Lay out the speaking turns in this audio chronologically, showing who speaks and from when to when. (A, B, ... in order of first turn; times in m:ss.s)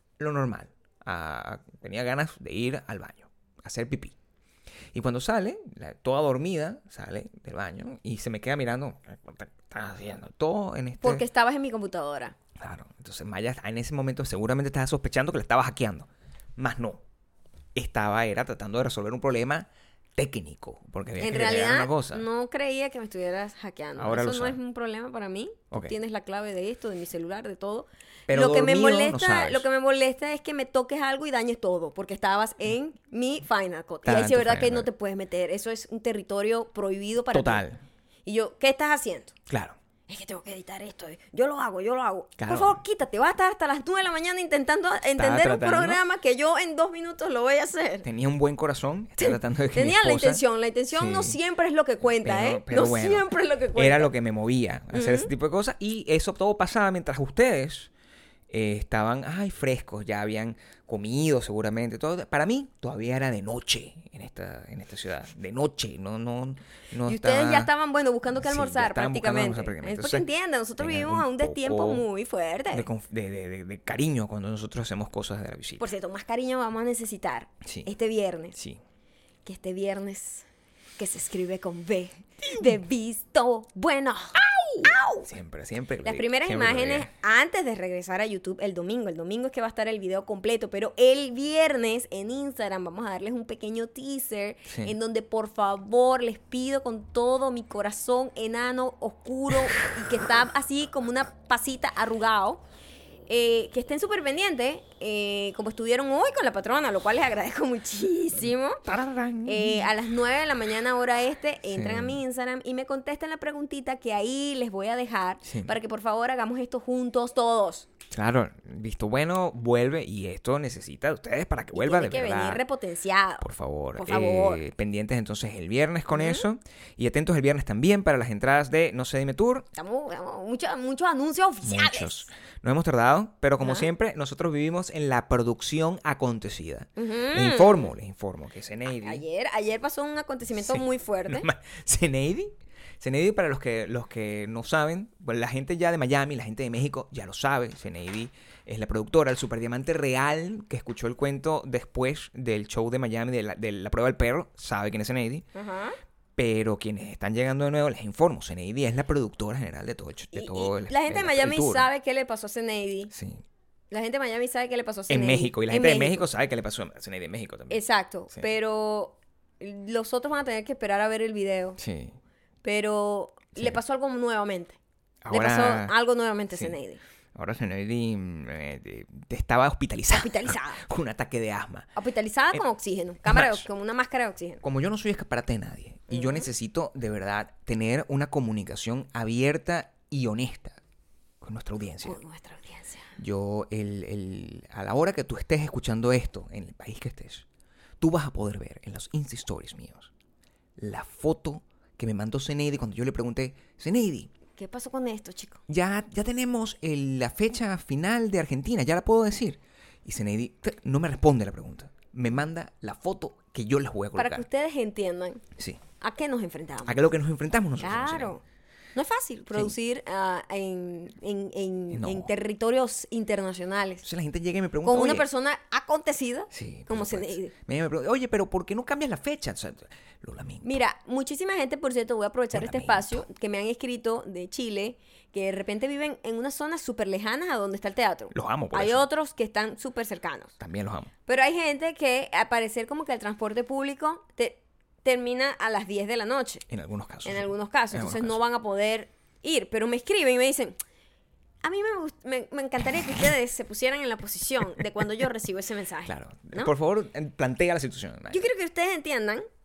0:00.2-0:04.1 A
0:04.9-0:11.2 A
0:11.0-0:12.4 B
0:12.6-0:17.0 A
0:17.7-0:22.2 A
0:21.2-0:37.6 B
0:24.0-0:24.6 A
0:28.3-0:29.6 A
0:34.0-0:34.9 A
0:37.3-0:37.8 A
0:38.2-0:39.3 B
0:39.5-0:39.8 A
0:40.1-0:48.1 B
0:42.4-0:42.8 A
0:45.2-0:46.0 A
0:48.0-0:50.4 A
0:49.2-0:54.1 B
0:50.9-0:51.4 A
0:52.1-0:57.9 A
0:54.9-0:55.3 B
0:58.5-1:07.7 A
1:07.0-1:12.9 B
1:08.4-1:10.2 A
1:10.8-1:12.0 A
1:12.7-1:15.9 A
1:15.8-1:18.6 B
1:18.5-1:18.8 A
1:19.4-1:20.4 B
1:21.0-1:25.3 B
1:24.8-1:27.1 A
1:26.0-1:42.6 B
1:34.7-1:34.9 A
1:43.3-1:48.8 B
1:48.8-1:49.9 A
1:49.4-1:57.9 B
1:51.7-1:52.2 A
1:55.4-1:55.7 A
1:58.1-2:02.6 A
2:01.7-2:04.6 B
2:03.4-2:09.7 A
2:06.1-2:06.4 B
2:09.8-2:12.3 B
2:11.6-2:19.2 A
2:13.6-2:13.9 B
2:17.0-2:17.9 B
2:18.9-2:21.5 B
2:20.6-2:35.4 A
2:35.5-2:36.0 B
2:36.4-2:41.8 A
2:40.3-2:43.1 B
2:43.1-2:43.4 A
2:43.9-2:46.2 B
2:45.1-2:47.8 A
2:47.7-2:51.8 B
2:51.8-2:52.2 A
2:52.6-2:54.8 B
2:55.2-2:55.9 A
2:55.3-2:57.0 B
2:57.3-3:01.9 A
3:00.1-3:00.8 B
3:01.9-3:04.6 B
3:03.2-3:03.6 A
3:04.6-3:10.8 A
3:06.1-3:06.5 B
3:11.4-3:12.2 A
3:12.0-3:13.1 B
3:13.2-3:17.4 A
3:18.0-3:20.1 A
3:20.8-3:24.3 A
3:24.6-3:25.6 B
3:25.7-3:34.4 A
3:34.2-3:35.4 B
3:36.0-3:37.0 B
3:36.8-3:38.3 A
3:37.8-3:38.4 B
3:38.9-3:44.0 B
3:41.9-3:42.3 A
3:44.0-3:45.3 A
3:44.8-3:47.5 B
3:46.5-3:50.8 A
3:50.6-4:00.5 B
3:52.5-3:53.2 A
3:58.3-3:59.0 A
4:00.6-4:01.1 A
4:01.3-4:06.6 B
4:06.7-4:08.4 A
4:07.2-4:10.8 B
4:11.6-4:16.7 B
4:16.0-4:18.5 A
4:18.3-4:19.5 B